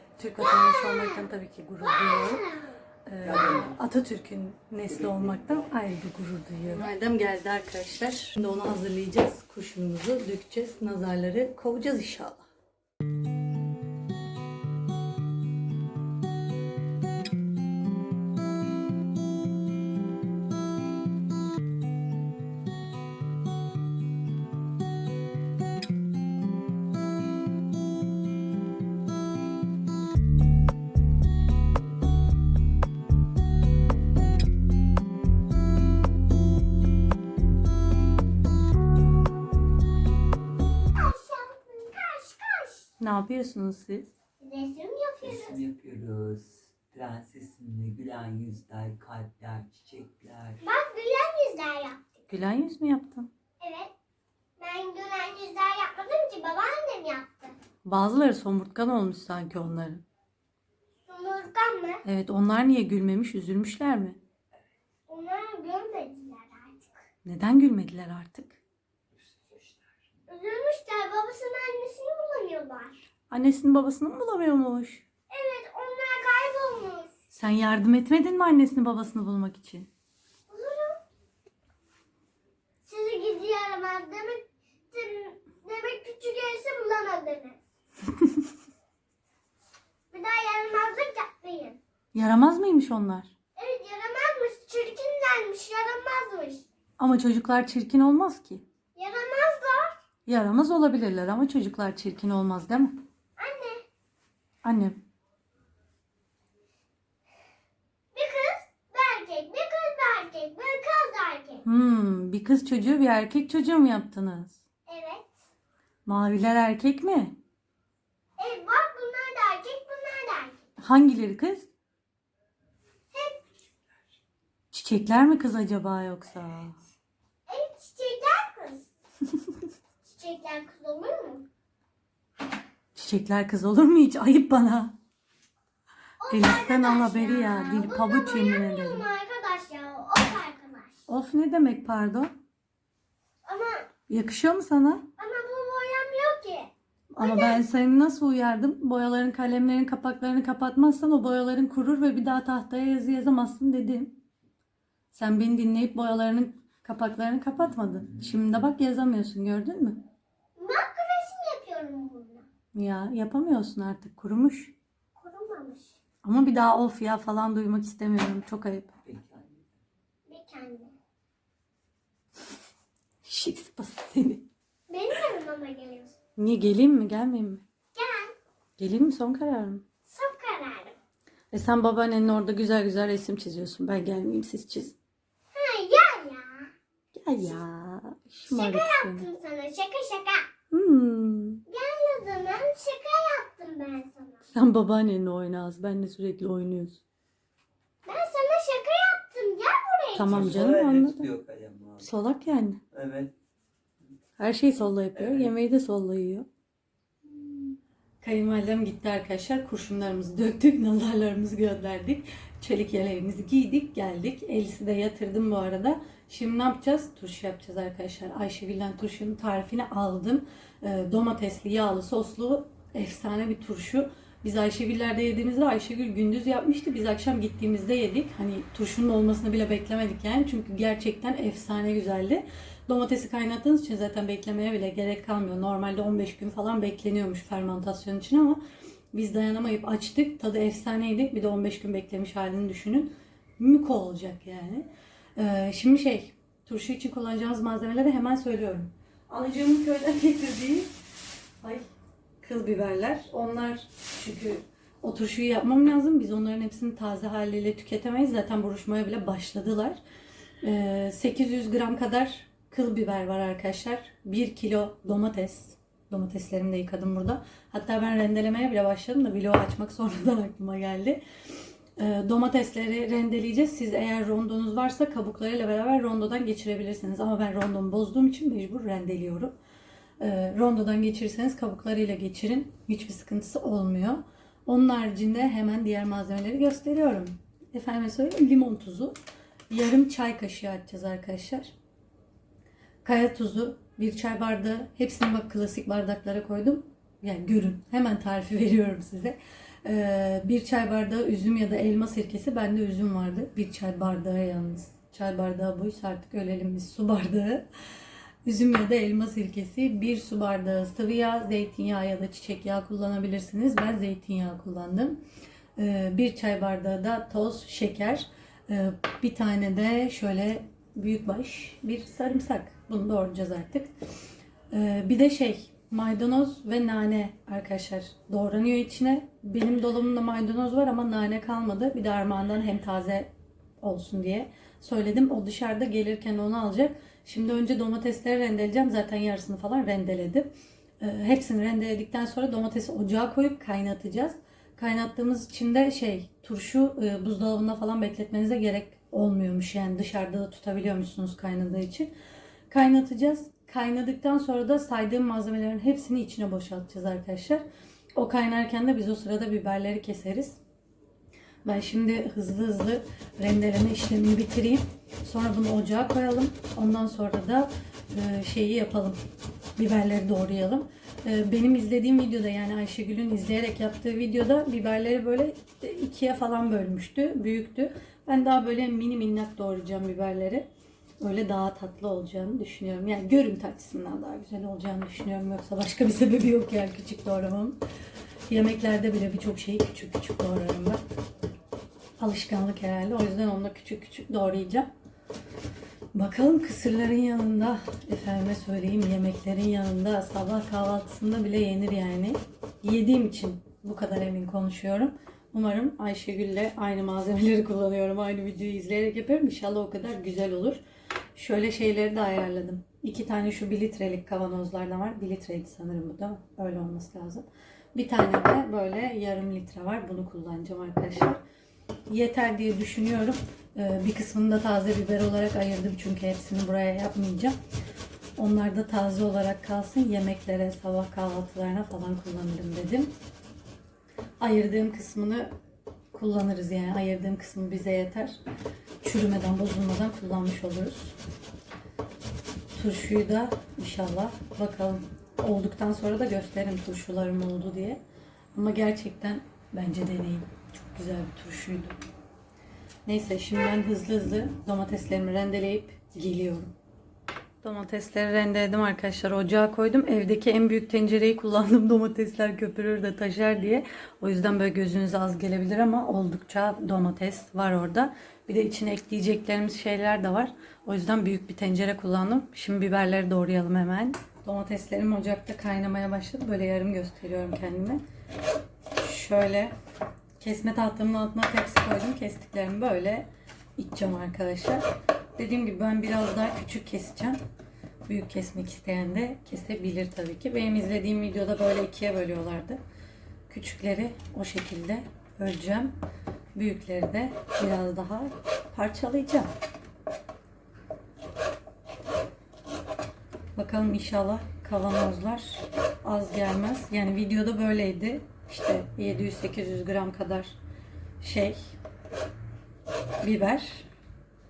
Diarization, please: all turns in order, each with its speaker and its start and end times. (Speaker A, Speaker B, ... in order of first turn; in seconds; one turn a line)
Speaker A: 0.2-2.5
Speaker B: 0.4-1.3
Speaker B: 1.8-2.8
Speaker A: 3.0-12.4
Speaker B: 40.9-42.9
Speaker A: 43.0-44.1
Speaker B: 44.4-45.6
Speaker C: 45.2-50.6
Speaker B: 50.6-52.0
Speaker A: 52.3-53.3
Speaker B: 53.6-53.9
Speaker B: 54.6-57.5
Speaker A: 57.8-60.0
Speaker B: 61.1-62.0
Speaker A: 62.0-64.2
Speaker B: 65.1-67.0
Speaker A: 67.2-68.6
Speaker C: 69.4-69.7
Speaker B: 70.3-73.0
Speaker A: 73.3-75.0
Speaker B: 75.3-77.1
Speaker A: 77.3-79.9
Speaker B: 80.5-81.0
Speaker B: 82.8-87.6
Speaker B: 90.1-91.8
Speaker A: 92.1-93.3
Speaker B: 93.5-96.6
Speaker A: 97.0-98.6
Speaker B: 98.9-100.0
Speaker A: 100.2-103.0
Speaker B: 103.4-103.8
Speaker A: 104.6-105.0
Speaker B: 108.1-111.6
Speaker A: 111.6-114.6
Speaker B: 114.9-115.2
Speaker A: 116.0-117.3
Speaker B: 118.4-120.6
Speaker A: 120.8-121.7
Speaker B: 123.1-123.4
Speaker A: 124.7-126.8
Speaker B: 127.5-128.9
Speaker B: 130.0-131.4
Speaker A: 132.9-134.9
Speaker B: 136.2-140.9
Speaker A: 136.3-139.1
Speaker A: 141.1-142.3
Speaker B: 143.4-143.8
Speaker A: 144.1-145.1
Speaker B: 145.2-146.7
Speaker A: 147.1-154.2
Speaker B: 147.2-147.6
Speaker A: 155.1-160.0
Speaker B: 160.6-162.4
Speaker A: 162.7-164.7
Speaker B: 165.2-165.9
Speaker A: 166.2-169.2
Speaker C: 169.2-169.6
Speaker B: 170.3-170.9
Speaker A: 173.2-174.5
Speaker B: 174.9-176.1
Speaker A: 176.4-177.6
Speaker B: 177.9-178.3
Speaker A: 178.8-179.8
Speaker B: 180.1-180.9
Speaker A: 181.5-184.9
Speaker B: 185.5-186.7
Speaker A: 187.1-189.3
Speaker B: 188.5-190.4
Speaker A: 190.7-191.6
Speaker B: 191.7-194.4
Speaker A: 194.5-197.0
Speaker B: 198.0-200.5
Speaker A: 200.1-201.3
Speaker C: 200.3-202.0
Speaker A: 202.0-202.8
Speaker C: 202.9-203.3
Speaker A: 204.4-206.5
Speaker A: 207.4-238.6
Speaker A: 239.1-250.9
Speaker A: 252.4-260.0
Speaker A: 260.6-271.2
Speaker A: 272.0-279.6
Speaker A: 280.2-289.1
Speaker A: 289.7-291.7
Speaker A: 293.0-307.7
Speaker A: 308.4-315.2
Speaker A: 315.8-323.9
Speaker A: 324.7-333.3
Speaker A: 333.8-340.5
Speaker A: 341.0-352.1
Speaker A: 352.7-357.6
Speaker A: 358.1-360.6
Speaker A: 361.6-369.2
Speaker A: 369.8-380.7
Speaker A: 381.2-387.8
Speaker A: 388.5-391.0
Speaker A: 392.2-394.9
Speaker A: 396.1-410.8
Speaker A: 411.3-421.4
Speaker A: 422.1-427.6
Speaker A: 428.4-433.1
Speaker A: 434.4-435.5
Speaker A: 436.1-438.4
Speaker A: 439.0-441.2
Speaker A: 442.7-448.0
Speaker A: 448.5-452.0
Speaker A: 453.1-456.7
Speaker A: 457.6-478.0
Speaker A: 479.0-479.7
Speaker A: 480.4-484.9
Speaker A: 485.4-487.4
Speaker A: 488.1-492.8
Speaker A: 493.5-495.9
Speaker A: 496.5-499.5
Speaker A: 503.6-510.6
Speaker A: 511.2-511.7
Speaker A: 513.2-513.9